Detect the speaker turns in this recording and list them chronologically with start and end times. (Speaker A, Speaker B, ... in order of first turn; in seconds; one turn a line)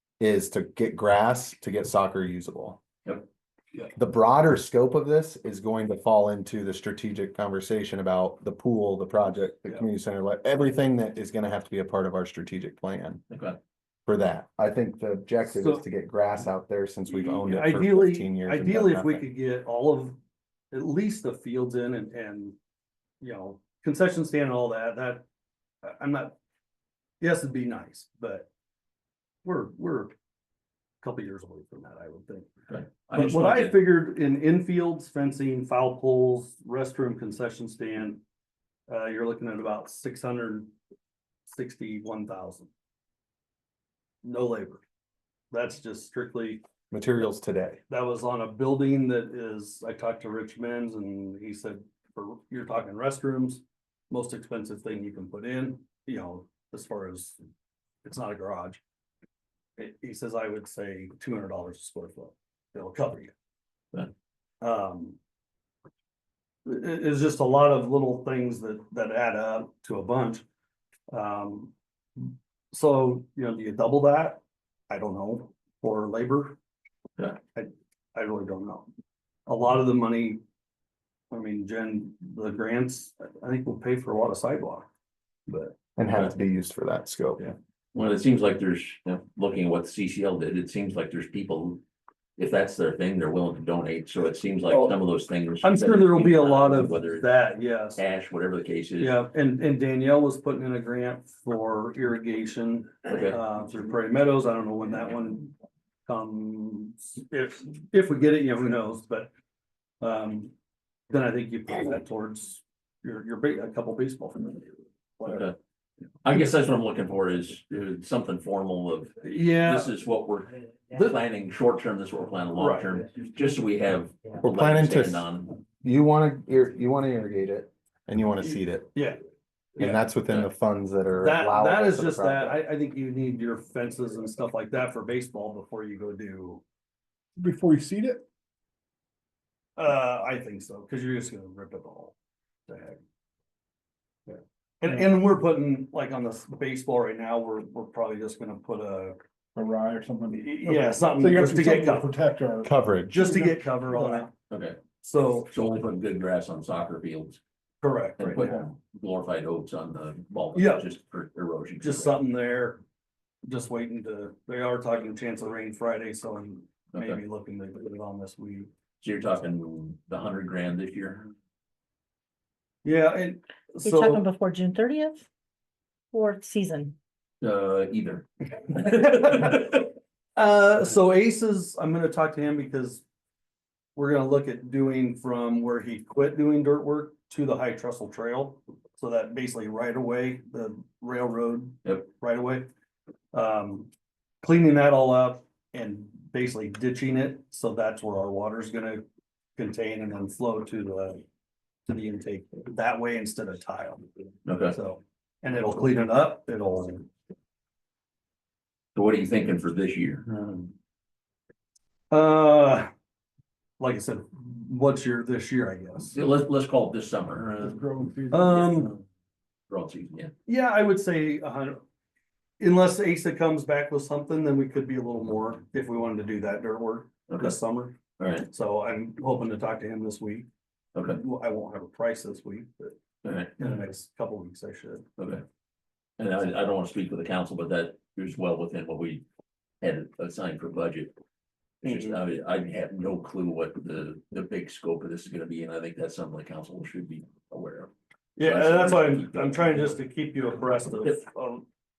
Speaker A: 0.2-2.8
Speaker A: 4.0-13.2
Speaker B: 13.3-13.6
Speaker A: 14.1-19.2
Speaker C: 15.5-15.8
Speaker C: 17.1-20.2
Speaker C: 20.7-22.6
Speaker C: 23.2-25.2
Speaker C: 25.8-26.4
Speaker C: 27.2-28.5
Speaker C: 29.4-30.1
Speaker C: 31.0-32.5
Speaker B: 32.7-33.9
Speaker C: 33.1-38.2
Speaker C: 38.9-40.7
Speaker C: 41.5-42.7
Speaker C: 44.2-44.8
Speaker C: 45.5-46.6
Speaker A: 46.9-47.8
Speaker C: 47.9-57.4
Speaker C: 58.0-58.8
Speaker C: 59.8-63.3
Speaker C: 64.6-65.2
Speaker C: 66.7-70.4
Speaker C: 71.1-76.6
Speaker C: 77.5-78.9
Speaker C: 79.5-80.4
Speaker C: 81.3-84.9
Speaker C: 85.5-85.8
Speaker A: 86.0-87.4
Speaker B: 87.9-91.8
Speaker B: 92.4-97.4
Speaker C: 95.6-98.0
Speaker B: 98.0-99.2
Speaker C: 99.0-105.5
Speaker B: 103.1-103.4
Speaker C: 106.1-109.3
Speaker C: 110.0-110.5
Speaker C: 111.1-115.4
Speaker B: 115.2-115.6
Speaker B: 116.2-125.6
Speaker C: 119.2-119.9
Speaker C: 122.6-122.9
Speaker A: 124.4-125.3
Speaker A: 125.8-128.9
Speaker C: 128.9-129.2
Speaker C: 129.8-130.0
Speaker A: 129.8-132.6
Speaker C: 131.2-136.6
Speaker D: 137.4-138.2
Speaker C: 139.8-142.1
Speaker C: 142.7-143.0
Speaker C: 144.3-149.2
Speaker D: 149.6-154.3
Speaker C: 150.4-152.1
Speaker A: 152.6-153.2
Speaker C: 153.1-154.3
Speaker B: 154.5-154.8
Speaker C: 155.0-155.5
Speaker B: 155.5-157.4
Speaker C: 157.8-158.4
Speaker B: 158.2-162.2
Speaker D: 158.4-158.7
Speaker C: 160.5-160.9
Speaker C: 161.8-162.8
Speaker C: 163.4-168.7
Speaker B: 166.9-167.2
Speaker B: 169.0-171.3
Speaker C: 172.8-173.4
Speaker E: 173.8-175.2
Speaker E: 176.1-177.0
Speaker B: 177.4-179.8
Speaker C: 180.4-183.0
Speaker C: 184.0-192.7
Speaker C: 193.3-193.9
Speaker C: 194.4-199.0
Speaker C: 199.6-201.2
Speaker C: 201.9-204.1
Speaker B: 204.5-204.8
Speaker C: 204.7-207.1
Speaker B: 208.9-210.3
Speaker C: 210.3-210.7
Speaker C: 212.1-212.9
Speaker C: 213.8-216.2
Speaker B: 216.1-217.8
Speaker D: 217.6-218.9
Speaker C: 218.3-218.9
Speaker B: 218.6-219.0
Speaker B: 219.7-220.3
Speaker C: 220.5-221.8
Speaker C: 222.6-230.5
Speaker B: 227.3-227.6
Speaker B: 228.2-228.5
Speaker B: 230.9-231.2
Speaker C: 231.1-233.0
Speaker B: 233.2-233.8
Speaker C: 233.6-235.1
Speaker B: 235.2-235.4
Speaker B: 236.2-239.2
Speaker B: 239.8-241.1
Speaker C: 241.8-242.1
Speaker B: 241.8-250.0
Speaker C: 248.4-251.6